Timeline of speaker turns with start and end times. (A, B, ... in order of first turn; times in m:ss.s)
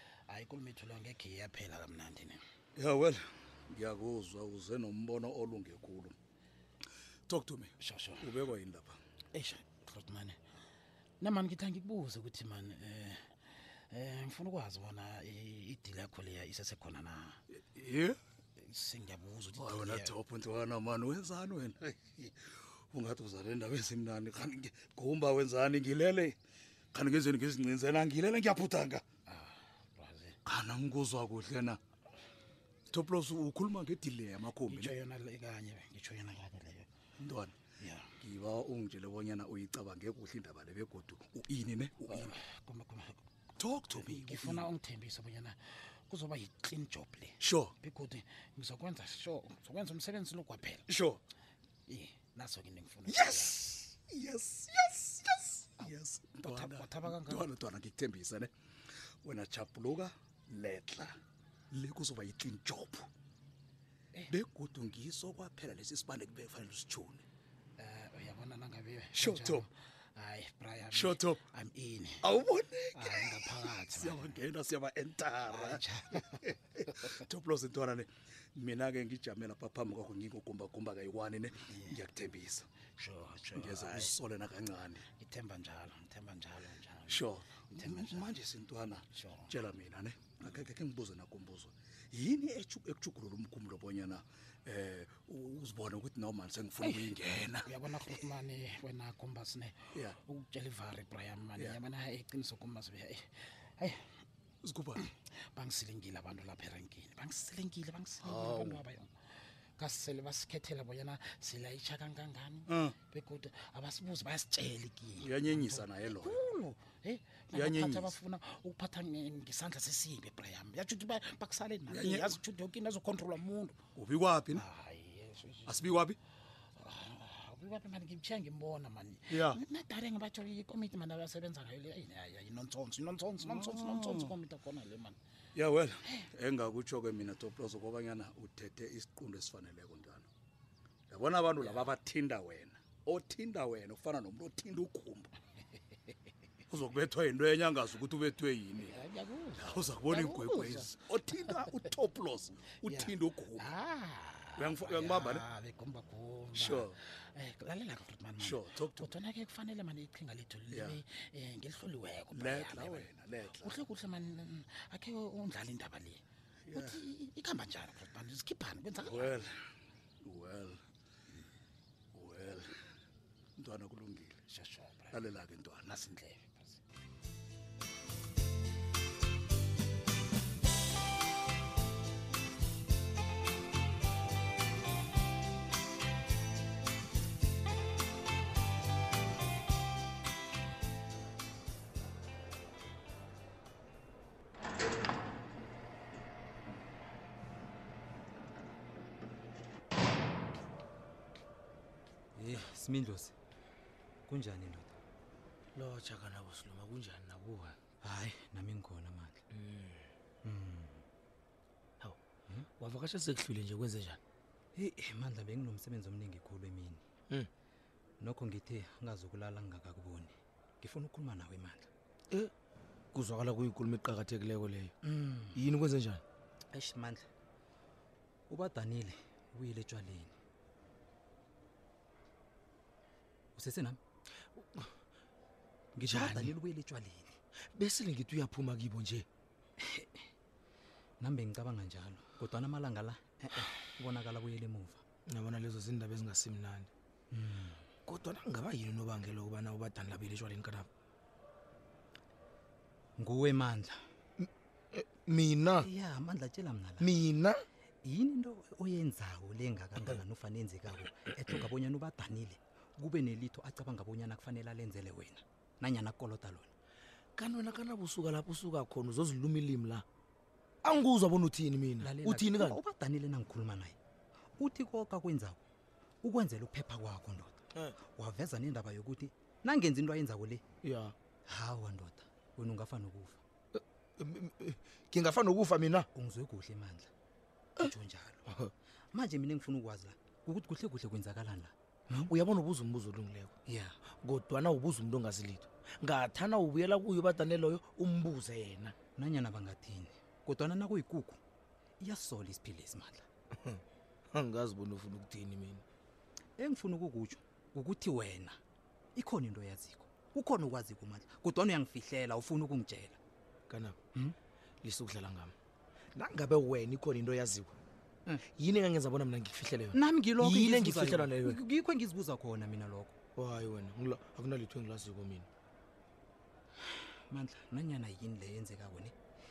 0:00.3-0:02.4 A
0:02.8-0:06.2 B
0:07.3-0:09.0 B
0:07.8-0:08.4 A
0:09.3-0:10.4 A
0:11.2-0:13.2 A
0:13.9-0:17.4 A
0:17.5-0:18.2 B
0:18.6-0:20.2 A
0:19.6-0:22.4 B
0:22.9-0:26.4 B
0:26.9-0:29.0 B
0:29.3-0:30.4 A
0:30.5-0:31.8 B
0:32.9-0:34.9 B
0:34.6-0:36.9 A
0:37.2-0:37.5 B
0:37.8-0:38.1 A
0:38.2-0:42.3 B
0:42.1-0:43.2 A
0:43.6-0:44.7 B
0:43.9-0:45.6 A
0:46.1-0:50.9 A
0:47.4-0:47.7 B
0:50.9-0:51.2 B
0:51.9-0:53.6 A
0:53.1-0:58.5 B
0:55.8-0:57.5 A
0:59.2-1:01.1 B
1:01.7-1:03.1 B
1:04.3-1:07.2 B
1:07.8-1:12.2 A
1:09.1-1:09.7 B
1:10.9-1:11.4 B
1:12.2-1:22.7 B
1:12.9-1:14.4 A
1:15.5-1:17.1 A
1:21.6-1:22.0 A
1:23.0-1:24.2 A
1:23.6-1:25.0 B
1:25.0-1:28.4 A
1:27.1-1:38.1 B
1:29.1-1:29.5 A
1:36.8-1:44.0 A
1:44.6-1:45.0 B
1:45.0-1:49.1 A
1:48.2-1:48.8 B
1:49.8-2:03.8 A
1:52.7-1:53.0 B
1:55.2-1:56.4 B
1:57.5-1:58.2 B
2:01.9-2:02.4 B
2:04.0-2:04.6 B
2:04.5-2:06.1 A
2:05.7-2:06.2 B
2:06.8-2:15.2 A
2:09.3-2:09.6 B
2:13.4-2:14.3 B
2:15.6-2:20.3 B
2:21.1-2:25.3 B
2:21.6-2:21.9 A
2:26.7-2:29.0 B
2:28.8-2:31.9 A
2:29.6-2:33.7 B
2:32.8-2:49.4 A
2:34.6-2:35.4 B
2:36.5-2:36.9 B
2:38.4-2:39.1 B
2:40.7-2:41.0 B
2:42.3-2:43.8 B
2:46.7-2:47.0 B
2:49.0-2:49.5 B
2:50.2-2:50.8 B
2:52.1-2:52.7 B
2:53.6-2:54.4 B
2:54.5-2:56.8 A
2:55.1-2:56.0 B
3:22.4-3:23.3 C
3:24.3-3:24.9 C
3:25.8-3:27.8 D
3:28.0-3:29.4 C
3:29.5-3:30.1 D
3:30.4-3:31.0 C
3:32.8-3:34.2 D
3:34.8-3:37.0 C
3:38.2-3:41.9 C
3:43.1-3:44.9 D
3:45.0-3:45.6 C
3:45.6-3:46.2 D
3:46.7-3:47.2 C
3:48.5-3:50.3 C
3:53.6-3:54.0 C
3:54.6-3:54.9 D
3:56.0-3:57.4 C
3:56.1-3:56.5 D
3:57.8-3:59.3 D
4:01.2-4:05.0 C
4:05.3-4:06.9 D
4:07.3-4:07.9 C
4:08.0-4:10.9 D
4:13.2-4:14.0 C
4:14.4-4:15.9 D
4:15.8-4:17.1 C
4:17.0-4:17.6 D
4:18.0-4:26.7 C
4:27.4-4:30.0 D
4:30.8-4:32.8 D
4:32.0-4:34.0 C
4:34.6-4:35.6 C
4:36.2-4:40.6 C
4:40.8-4:41.1 D
4:41.5-4:43.4 C
4:43.8-4:46.1 D
4:46.2-4:47.1 C
4:47.8-4:48.5 C
4:49.1-4:52.3 C
4:52.1-4:53.5 D
4:53.7-4:53.9 C
4:54.2-4:59.0 D
4:59.2-5:01.4 C
5:02.0-5:03.2 C
5:03.6-5:05.8 D
5:06.6-5:08.6 C
5:09.2-5:13.2 C
5:13.7-5:14.0 D
5:14.8-5:15.6 D
5:16.2-5:17.8 D
5:18.4-5:21.6 D
5:19.9-5:23.1 C
5:23.4-5:25.5 D
5:27.3-5:29.1 C